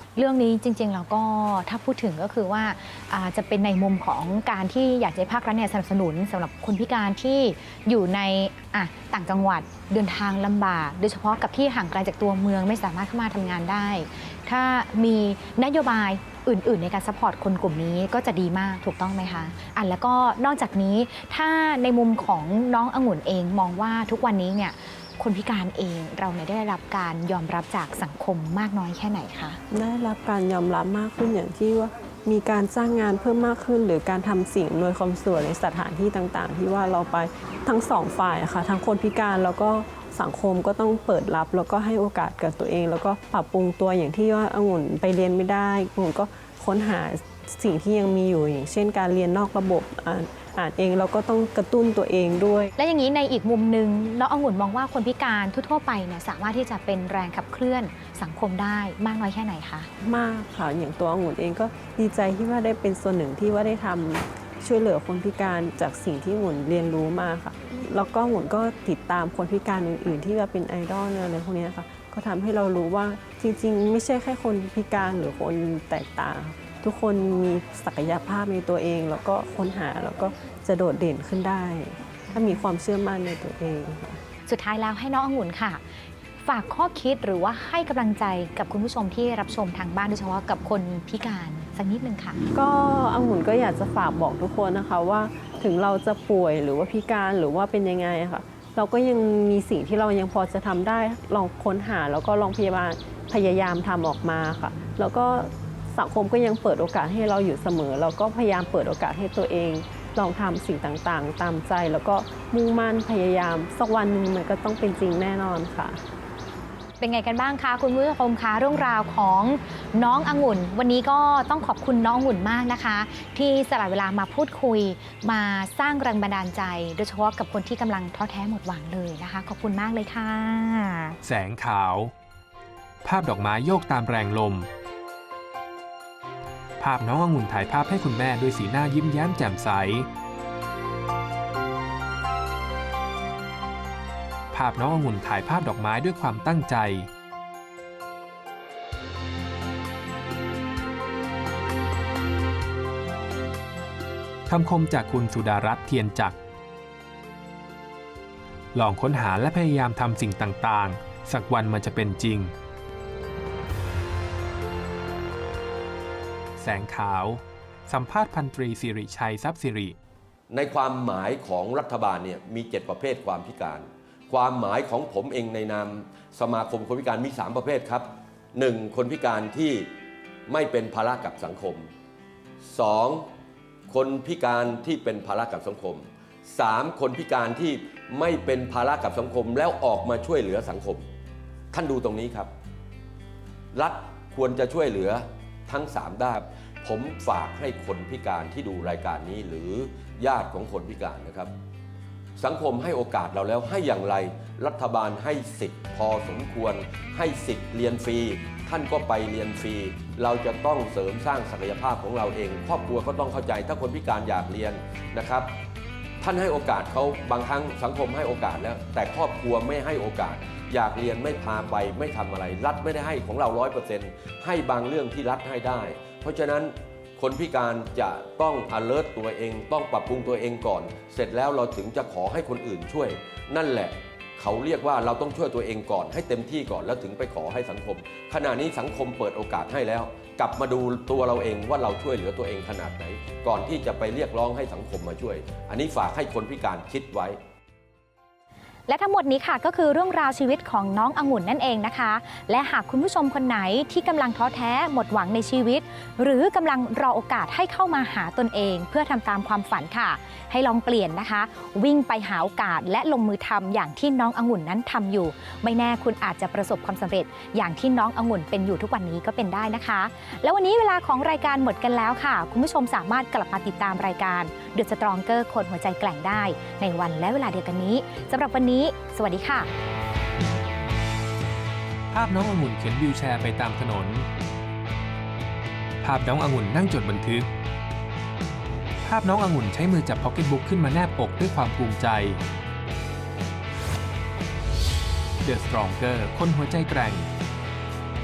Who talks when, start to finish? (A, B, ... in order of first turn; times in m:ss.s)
0:00.2-0:29.6 A
0:29.7-0:52.7 B
0:52.8-0:59.9 A
1:00.0-1:24.2 B
1:24.4-1:32.4 A
1:32.5-1:56.0 B
1:57.0-2:11.2 A
2:11.2-2:12.1 C
2:13.0-2:14.7 C
2:16.8-2:20.1 C
2:24.5-2:27.1 C
2:34.5-2:36.4 C
2:38.7-2:42.5 C
2:46.6-2:50.0 C
2:50.5-2:59.9 D
3:00.5-3:01.9 D
3:02.6-3:03.3 D
3:03.9-3:11.0 D
3:11.7-3:12.5 D
3:13.7-3:21.5 D
3:22.4-3:35.5 D
3:36.2-4:07.4 D
4:08.9-4:39.7 A
4:42.1-4:44.3 C
4:46.0-4:47.5 C
4:49.0-4:52.4 C
4:55.4-4:57.3 C